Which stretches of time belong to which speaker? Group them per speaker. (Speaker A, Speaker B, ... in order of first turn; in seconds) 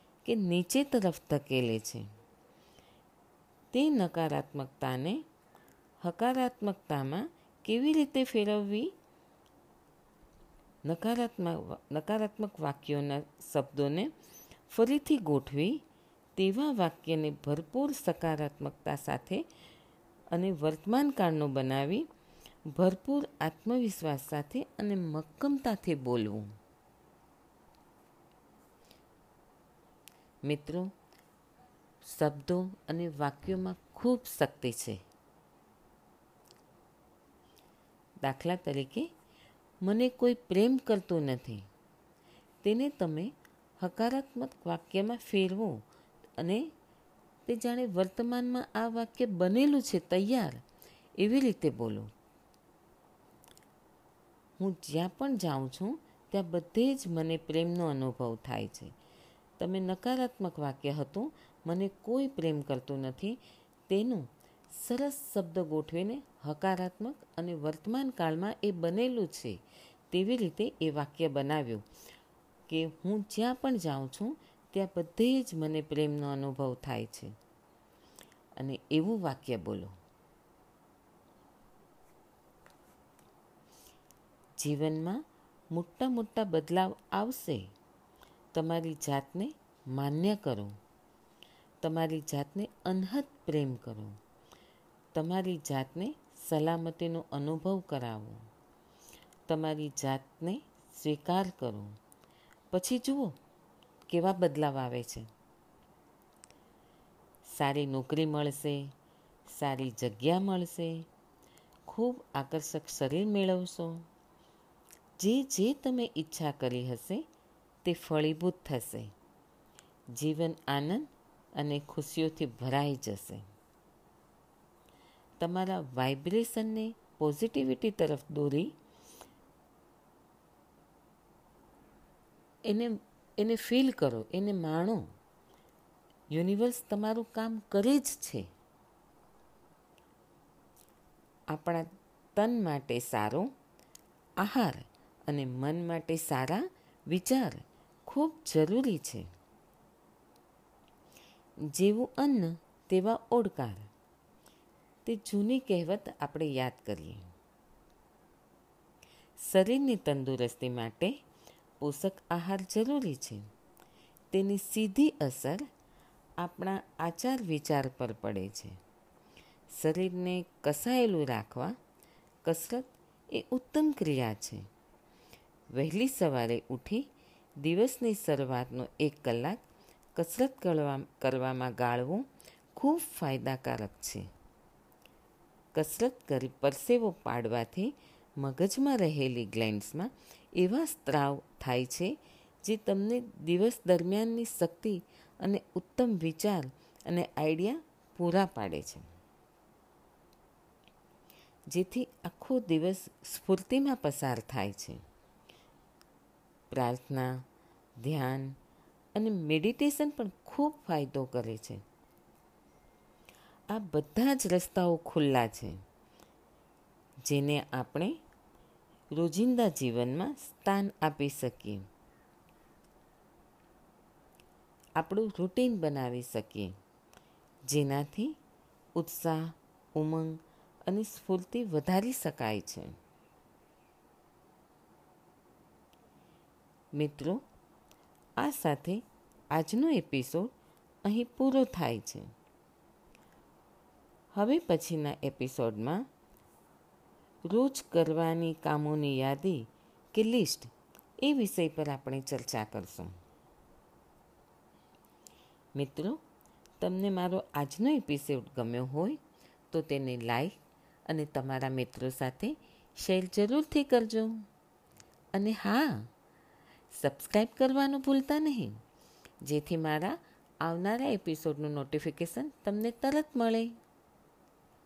Speaker A: 0.2-2.0, 3.7-5.2, 6.0-8.9, 10.8-14.1, 14.7-15.8, 16.4-19.4, 20.3-22.1, 22.7-26.5, 30.4-30.9, 32.0-35.0, 38.2-39.1, 39.8-41.6, 42.6-45.8, 46.4-46.7, 47.5-50.6, 51.2-52.1, 54.6-58.9, 59.6-69.6, 70.1-71.8, 72.7-77.3, 78.6-79.9, 84.6-85.2, 85.7-87.7, 88.5-90.7, 91.8-94.2, 95.1-98.4, 99.5-101.9, 102.7-103.3, 104.1-105.3, 107.4-108.9, 109.5-111.0, 111.8-114.0, 115.2-117.2, 117.8-119.1, 120.1-123.4, 125.4-128.7, 132.7-135.1, 136.3-138.5, 141.5-143.5, 144.4-149.3, 151.7-153.9, 155.0-157.2, 159.4-161.2, 161.8-163.4, 164.3-165.7, 166.4-168.8, 169.7-171.8, 172.4-174.6, 175.7-177.1, 177.6-179.6, 180.2-184.3, 185.7-199.1, 201.7-205.0, 206.7-207.4, 208.0-208.6, 209.1-211.8, 213.7-215.8, 217.2-218.1, 219.1-221.8, 225.0-226.7, 227.7-228.3, 228.9-232.9, 236.9-237.4, 238.4-239.0, 239.5-240.5, 241.0-242.3, 244.3-246.0, 247.4-253.1, 255.7-256.2, 256.8-259.2, 259.7-264.4, 265.3-266.1, 266.9-268.8, 269.4-273.8